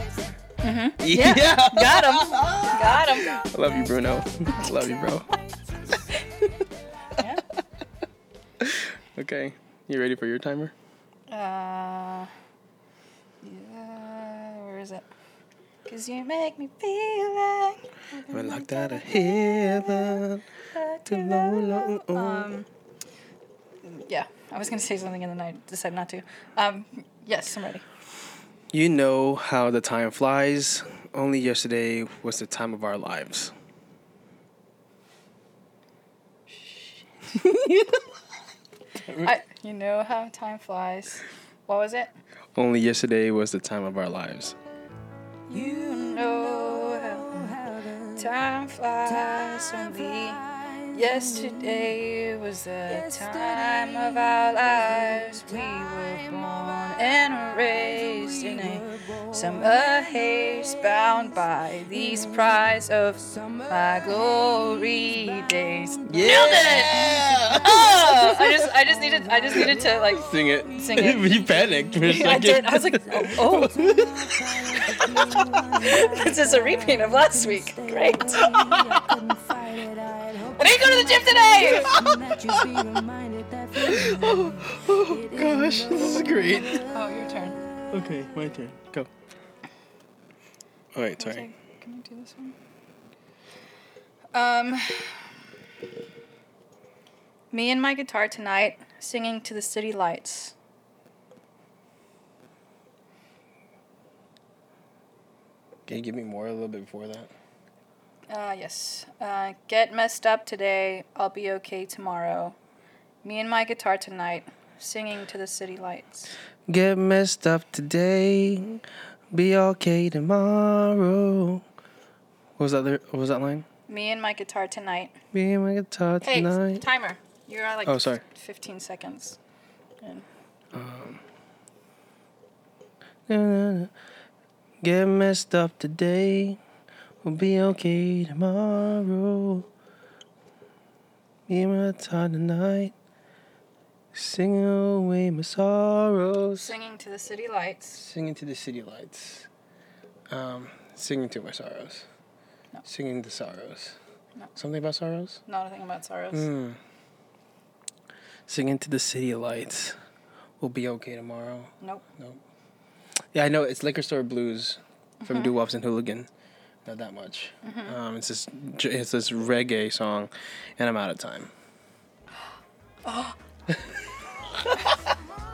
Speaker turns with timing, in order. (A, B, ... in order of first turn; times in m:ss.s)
0:00.6-0:03.3 A
0:01.0-0:05.3 B
0:07.2-0:07.4 A
0:08.6-0:10.7 B
0:11.3-0:12.3 A
0:13.4-0:15.1 A
0:15.9-0:22.7 A
0:18.3-0:20.4 B
0:21.1-0:22.5 B
0:23.8-0:27.8 A
0:28.7-0:33.5 B
0:36.5-0:37.4 A
0:37.4-0:38.0 B
0:39.1-0:42.1 A
0:42.6-0:44.6 B
0:45.5-1:11.3 A
1:06.1-1:08.7 B
1:09.5-1:16.1 B
1:12.0-1:13.9 A
1:14.8-1:19.2 A
1:18.3-1:20.0 B
1:20.4-1:22.5 A
1:21.7-1:23.1 B
1:23.7-1:26.9 B
1:26.9-1:27.6 A
1:27.9-1:29.1 B
1:31.0-1:31.5 B
1:31.2-1:32.6 A
1:34.3-1:35.2 A
1:37.5-1:40.6 A
1:45.9-1:47.3 B
1:48.3-1:52.6 A
1:53.2-1:56.3 A
1:56.7-2:01.6 B
2:02.6-2:03.7 B
2:03.9-2:05.1 A
2:05.3-2:06.8 B
2:06.2-2:09.4 A
2:07.9-2:08.2 B
2:10.7-2:11.2 B
2:13.3-2:13.9 B
2:14.8-2:16.6 B
2:17.2-2:19.7 B
2:21.5-2:23.0 B
2:24.1-2:26.7 B
2:26.6-2:28.0 A
2:28.0-2:29.5 B
2:30.3-2:32.1 B
2:32.8-2:34.0 B
2:34.6-2:35.4 B
2:35.5-2:36.5 A
2:36.3-2:36.8 B
2:38.5-2:40.0 B
2:40.6-2:42.4 B
2:43.3-2:46.3 B
2:45.2-2:45.5 A
2:46.8-2:51.5 B
2:47.6-2:48.0 A
2:53.0-2:53.4 A